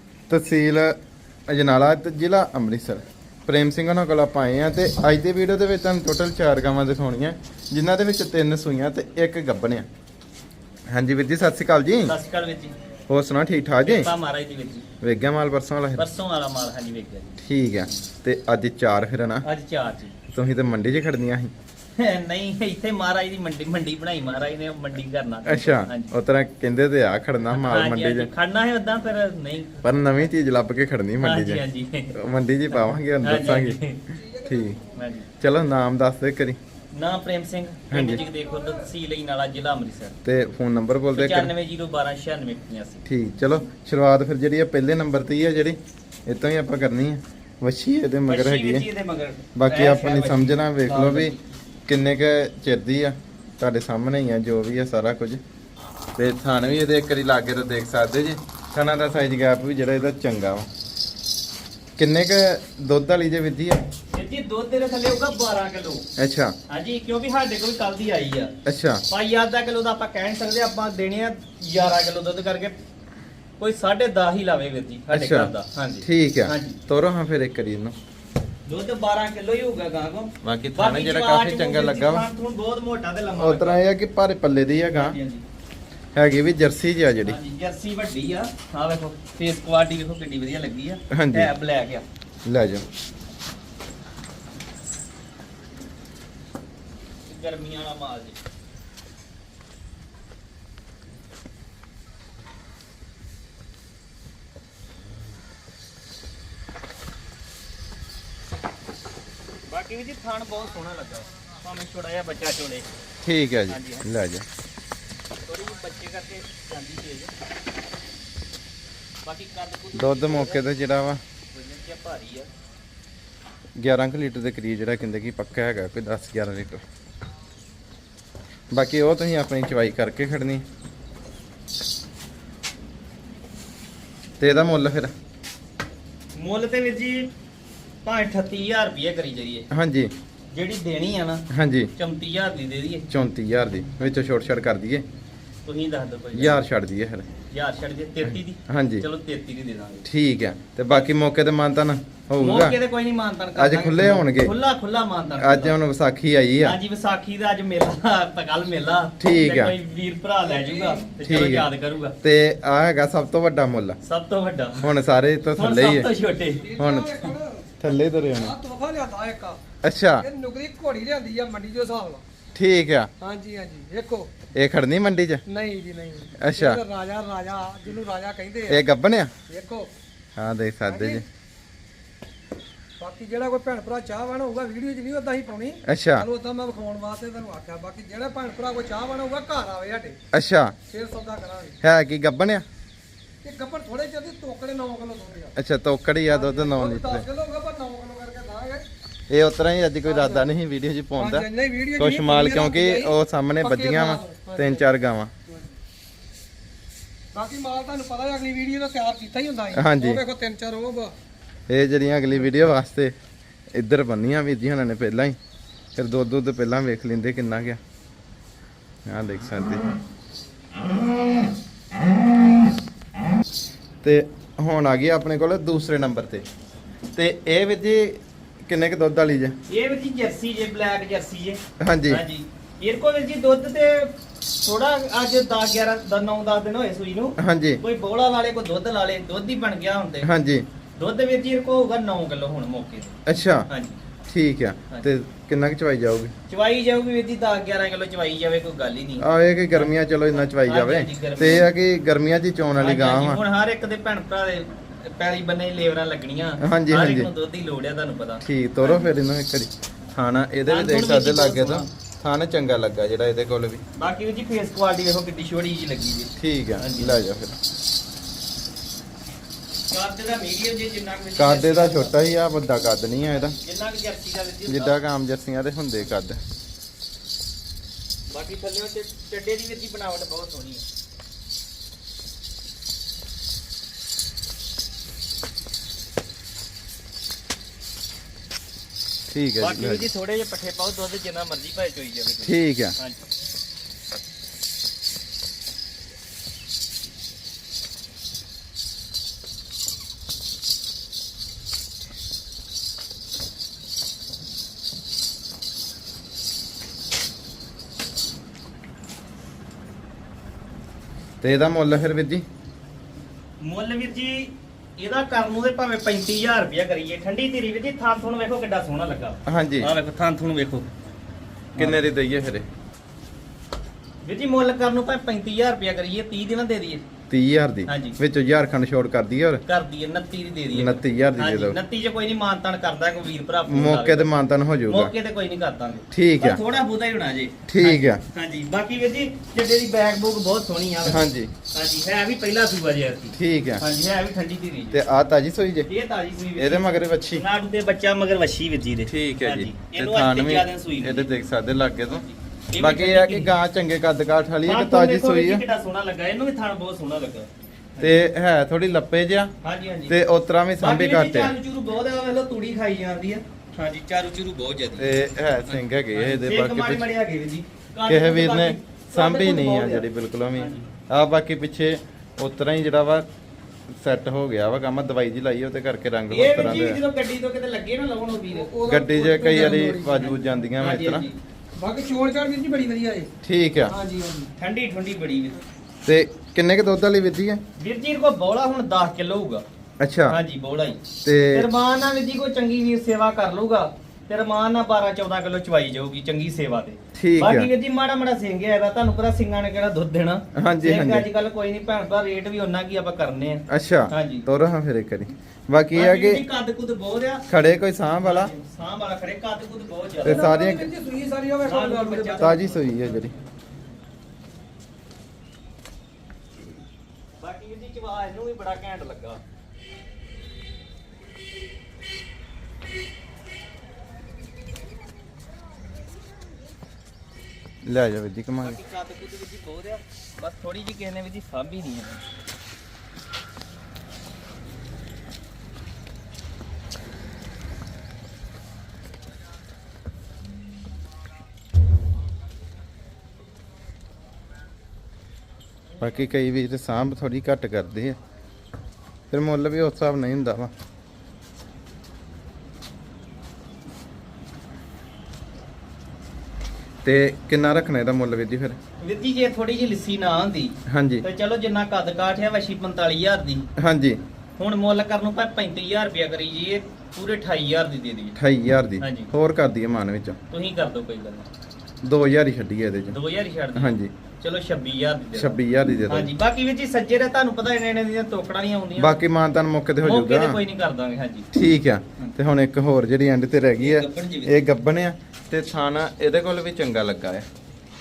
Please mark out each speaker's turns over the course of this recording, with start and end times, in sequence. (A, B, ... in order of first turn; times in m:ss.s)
0:00.3-0:01.0 A
0:01.5-0:09.9 A
0:10.9-0:12.2 A
0:12.0-0:12.7 B
0:13.1-0:14.1 A
0:13.8-0:14.8 B
0:15.0-0:16.0 A
0:16.0-0:17.4 B
0:17.4-0:19.4 A
0:19.4-0:20.2 B
0:20.3-0:21.5 A
0:22.0-0:26.1 B
0:25.4-0:28.3 A
0:27.5-0:30.3 B
0:29.8-0:31.6 A
0:31.2-0:32.2 B
0:32.1-0:33.8 A
0:32.7-0:34.0 B
0:34.1-0:35.1 C
0:34.4-0:34.8 A
0:34.9-0:35.3 B
0:35.4-0:36.6 A
0:36.9-0:40.1 B
0:37.9-0:38.2 A
0:38.2-0:38.8 C
0:40.2-0:41.5 A
0:41.1-0:43.0 B
0:43.0-0:48.9 A
0:48.3-0:51.4 B
0:49.5-0:51.3 A
0:51.9-0:55.4 A
0:56.2-1:00.7 A
1:02.0-1:03.8 A
1:04.1-1:06.0 B
1:06.2-1:06.5 A
1:06.7-1:08.5 B
1:08.6-1:09.0 A
1:09.1-1:12.7 B
1:13.6-1:16.8 B
1:15.1-1:17.9 A
1:18.6-1:23.8 B
1:20.4-1:22.2 A
1:23.4-1:25.2 A
1:24.9-1:25.4 B
1:26.1-1:27.4 A
1:27.2-1:32.0 B
1:31.1-1:31.5 A
1:32.4-1:32.8 A
1:37.2-1:38.4 B
1:49.7-1:52.8 B
1:53.2-1:54.4 A
1:53.7-1:54.0 B
1:55.4-1:57.3 B
1:59.2-2:00.7 B
1:59.9-2:01.2 A
2:01.5-2:02.5 B
2:03.8-2:06.8 A
2:08.7-2:10.6 A
2:14.4-2:15.1 A
2:16.3-2:17.3 B
2:18.0-2:19.7 B
2:19.7-2:20.1 A
2:20.5-2:21.4 B
2:21.5-2:21.9 A
2:22.0-2:23.1 B
2:23.1-2:25.0 A
2:25.6-2:26.6 B
2:26.3-2:27.3 A
2:27.5-2:30.0 B
2:28.2-2:29.0 A
2:30.0-2:32.8 A
2:32.4-2:35.8 B
2:33.6-2:34.5 A
2:35.4-2:36.8 A
2:36.6-2:42.2 B
2:39.2-2:39.8 A
2:40.5-2:41.1 C
2:41.2-2:41.7 A
2:42.2-2:44.0 A
2:44.0-2:44.9 B
2:44.8-2:46.1 A
2:45.5-2:46.7 B
2:46.6-2:49.6 C
2:46.8-2:48.5 A
2:49.8-2:50.2 A
2:50.2-2:52.2 C
2:52.5-2:53.1 A
2:53.2-2:54.3 C
2:54.5-2:55.4 A
2:55.5-2:58.8 C
2:56.4-2:56.8 A
2:58.7-2:59.3 A
2:59.5-2:59.9 C
3:00.4-3:01.2 A
3:00.8-3:01.2 C
3:03.0-3:10.2 C
3:05.8-3:06.3 A
3:10.3-3:10.8 A
3:10.9-3:11.8 C
3:11.8-3:12.6 A
3:13.4-3:15.6 C
3:15.6-3:17.3 A
3:16.3-3:18.8 C
3:19.3-3:25.3 A
3:20.0-3:20.5 C
3:21.2-3:24.8 C
3:25.5-3:25.7 C
3:27.3-3:31.1 C
3:29.7-3:30.2 A
3:31.7-3:33.1 A
3:33.7-3:35.4 A
3:36.0-3:37.8 A
3:39.0-3:39.9 A
3:44.0-3:46.4 A
3:47.1-3:49.6 A
3:49.7-4:00.3 B
3:51.8-3:52.2 A
3:57.4-3:57.8 A
4:00.2-4:00.6 A
4:01.0-4:03.1 B
4:03.2-4:03.7 A
4:03.7-4:04.0 B
4:04.3-4:06.3 A
4:06.5-4:11.7 B
4:09.2-4:13.4 A
4:12.8-4:19.1 B
4:16.6-4:17.3 A
4:18.4-4:23.8 A
4:20.7-4:21.9 B
4:24.0-4:27.2 B
4:26.4-4:27.6 A
4:29.9-4:32.2 B
4:31.4-4:33.6 A
4:33.2-4:35.0 B
4:34.7-4:36.4 A
4:38.3-4:40.8 B
4:49.3-4:50.1 A
4:49.6-4:53.2 B
4:52.4-4:53.0 A
5:11.4-5:12.4 A
5:13.6-5:20.9 B
5:19.4-5:19.9 A
5:21.8-5:22.0 B
5:21.8-5:22.7 A
5:24.2-5:27.0 B
5:27.3-5:29.6 A
5:27.9-5:28.2 B
5:29.6-5:34.3 B
5:30.7-5:31.8 A
5:33.7-5:35.1 A
5:34.9-5:45.0 B
5:36.1-5:36.6 A
5:37.7-5:38.2 A
5:41.0-5:41.5 A
5:43.3-5:43.8 A
5:44.9-5:45.9 A
5:45.9-5:51.3 B
5:46.6-5:47.4 A
5:49.1-5:52.2 A
5:52.0-5:53.5 B
5:52.8-5:55.6 A
5:54.6-5:58.2 B
5:58.0-5:59.5 A
5:59.6-6:00.2 B
6:00.1-6:01.5 A
6:00.8-6:10.9 B
6:05.0-6:07.0 A
6:08.0-6:13.2 A
6:14.0-6:17.0 A
6:16.3-6:18.7 B
6:18.5-6:20.6 C
6:18.8-6:21.3 A
6:20.8-6:21.4 B
6:21.8-6:23.3 C
6:23.4-6:23.9 A
6:23.9-6:24.5 C
6:24.6-6:25.6 B
6:26.0-6:27.6 A
6:27.8-6:29.6 B
6:30.0-6:30.4 A
6:30.3-6:44.5 B
6:31.2-6:31.7 A
6:37.1-6:37.7 A
6:40.5-6:41.3 A
6:43.7-6:46.4 A
6:45.9-6:47.4 B
6:47.5-6:48.5 A
6:48.1-6:50.5 B
6:50.2-6:50.9 A
6:50.2-6:52.6 C
6:51.6-6:52.8 B
6:52.4-6:53.4 A
6:57.4-6:59.4 B
7:07.8-7:08.8 A
7:08.6-7:12.2 B
7:26.0-7:28.2 A
7:29.3-7:30.7 A
7:37.0-7:38.8 A
7:39.0-7:43.7 B
7:40.9-7:41.2 A
7:43.8-7:44.2 A
7:44.6-7:48.4 B
7:48.4-7:50.4 A
7:49.0-7:49.3 B
7:50.5-7:51.5 B
7:52.0-7:53.2 A
7:53.1-7:59.2 B
7:53.7-7:54.1 A
7:55.3-7:56.3 A
7:59.0-8:00.6 A
8:00.0-8:01.5 B
8:01.5-8:07.4 A
8:03.8-8:04.6 B